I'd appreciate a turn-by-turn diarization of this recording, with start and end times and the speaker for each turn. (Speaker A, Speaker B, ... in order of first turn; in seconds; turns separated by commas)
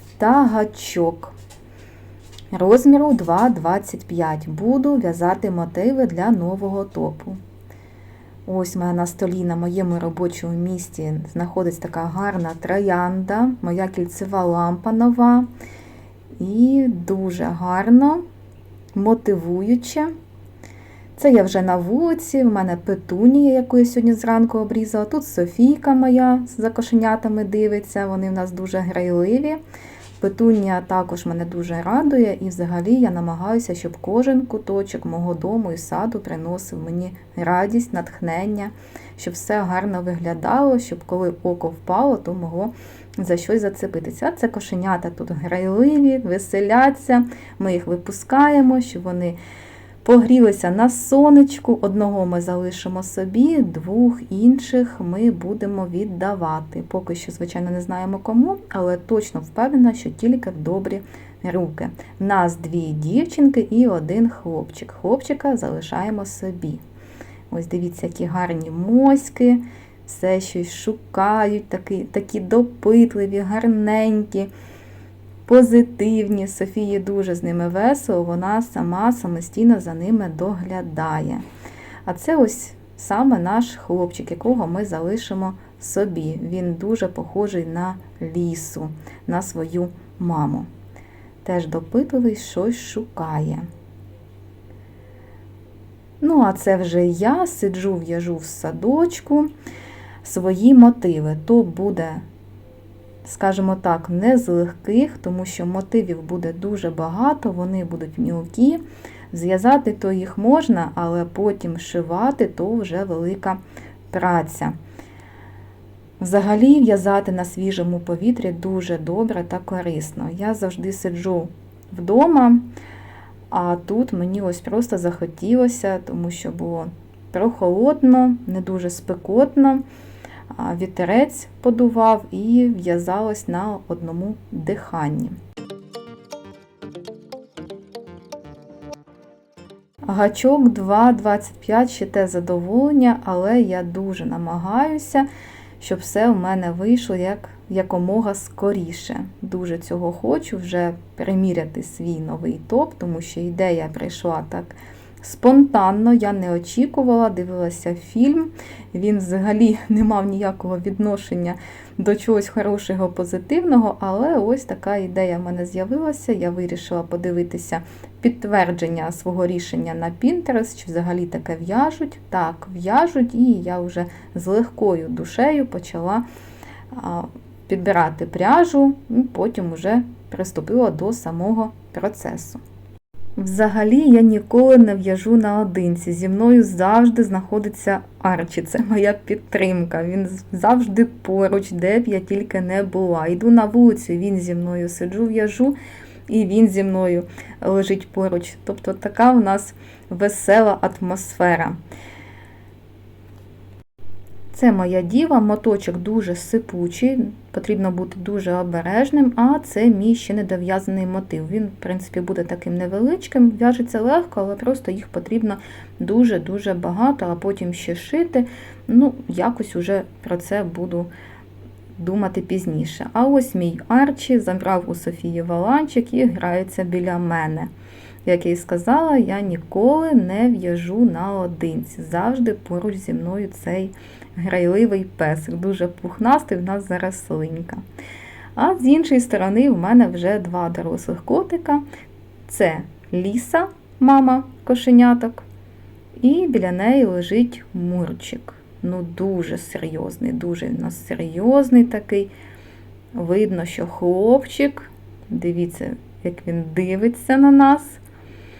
Speaker A: 0.2-1.3, Speaker A: 2.5-7.4, Speaker A: 8.4-15.5, Speaker A: 16.4-18.2, Speaker A: 18.9-20.1, Speaker A: 21.1-29.6, Speaker A: 30.2-49.4, Speaker A: 50.0-66.8, Speaker A: 67.5-74.5, Speaker A: 75.5-81.4, Speaker A: 82.0-90.7, Speaker A: 91.4-93.7, Speaker A: 96.2-99.5, Speaker A: 100.2-102.2, Speaker A: 103.2-113.6, Speaker A: 114.1-114.8, Speaker A: 116.2-122.7, Speaker A: 123.5-129.8, Speaker A: 130.5-135.4, Speaker A: 140.1-145.3, Speaker A: 145.8-176.2, Speaker A: 176.9-182.6, Speaker A: 183.4-195.8, Speaker A: 196.3-201.8, Speaker A: 204.5-221.1, Speaker A: 221.9-227.7, Speaker A: 228.2-237.8, Speaker A: 238.6-241.8, Speaker A: 242.5-245.4, Speaker A: 246.2-252.3, Speaker A: 253.1-258.0